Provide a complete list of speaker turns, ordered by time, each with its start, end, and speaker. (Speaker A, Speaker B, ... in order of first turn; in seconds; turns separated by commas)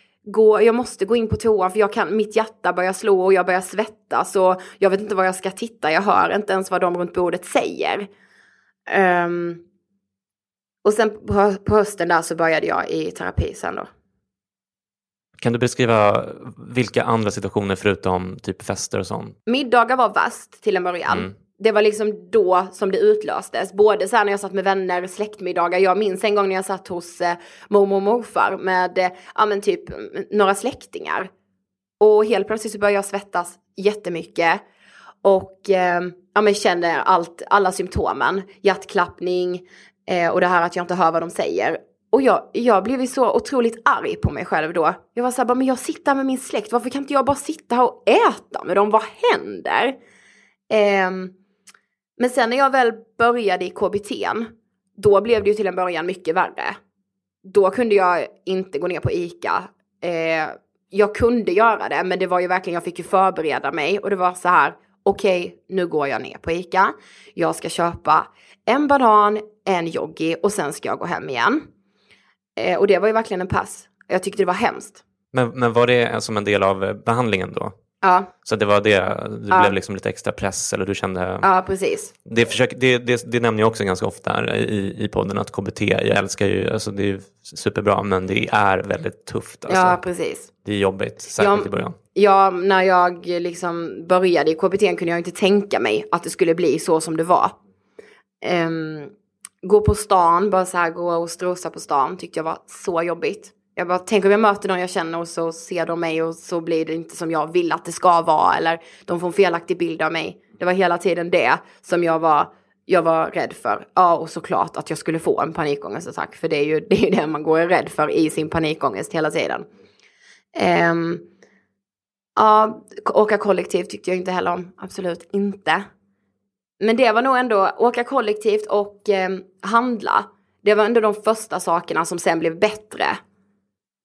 Speaker A: 0.3-8.1, Speaker A: 8.9-9.6, Speaker A: 10.8-13.9, Speaker B: 15.4-19.4, Speaker A: 19.5-31.3, Speaker B: 21.1-21.3, Speaker A: 32.0-34.6, Speaker A: 35.2-50.0, Speaker A: 50.7-51.4, Speaker A: 52.2-56.8, Speaker A: 57.4-71.7, Speaker A: 72.6-75.0, Speaker B: 75.3-77.7, Speaker A: 78.0-78.3, Speaker B: 78.4-81.5, Speaker A: 79.5-79.8, Speaker A: 81.4-82.1, Speaker B: 82.2-90.0, Speaker A: 89.7-90.5, Speaker B: 90.6-92.0, Speaker A: 91.4-97.6, Speaker A: 98.4-119.7, Speaker A: 120.5-121.2, Speaker A: 122.4-125.9, Speaker A: 126.8-133.2